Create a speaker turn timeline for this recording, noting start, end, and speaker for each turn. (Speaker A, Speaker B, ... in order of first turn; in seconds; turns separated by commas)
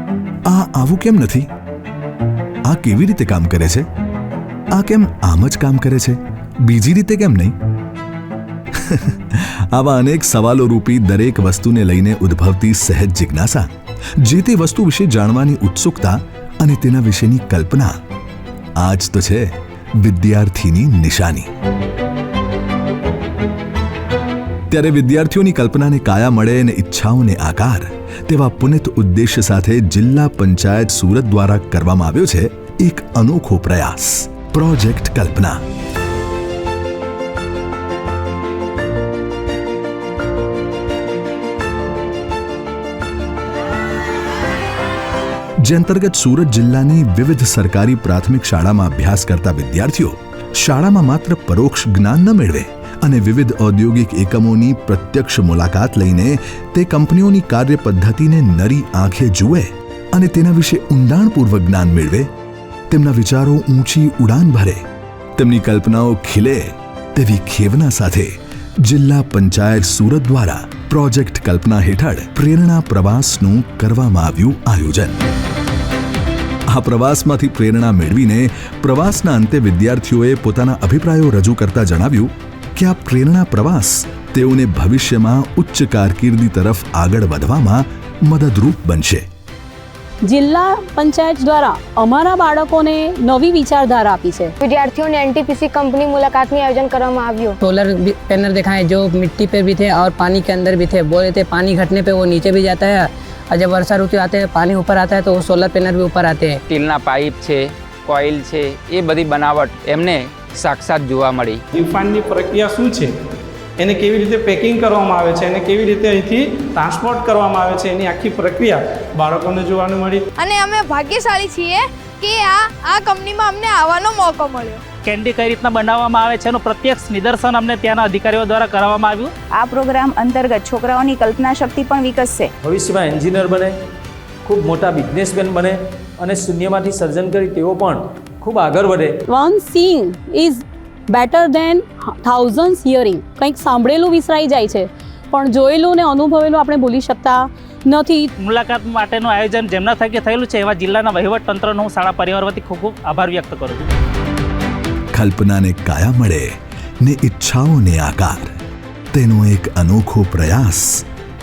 Speaker A: 0.5-1.5, Speaker A: 2.6-3.9, Speaker A: 4.7-7.5, Speaker A: 8.7-17.9, Speaker A: 18.8-21.5, Speaker A: 24.7-35.6, Speaker A: 45.6-62.3, Speaker A: 62.9-64.8, Speaker A: 65.4-75.2, Speaker A: 76.7-89.2, Speaker B: 90.2-94.5, Speaker C: 94.6-97.5, Speaker D: 97.6-106.6, Speaker E: 106.7-111.6, Speaker F: 111.7-113.1, Speaker F: 113.8-120.3, Speaker G: 120.3-124.8, Speaker H: 125.0-129.3, Speaker I: 129.5-132.5, Speaker J: 132.6-133.7, Speaker J: 134.4-139.2, Speaker B: 139.3-148.3, Speaker H: 148.4-153.8, Speaker A: 155.1-156.5, Speaker A: 157.0-158.5, Speaker A: 159.1-161.0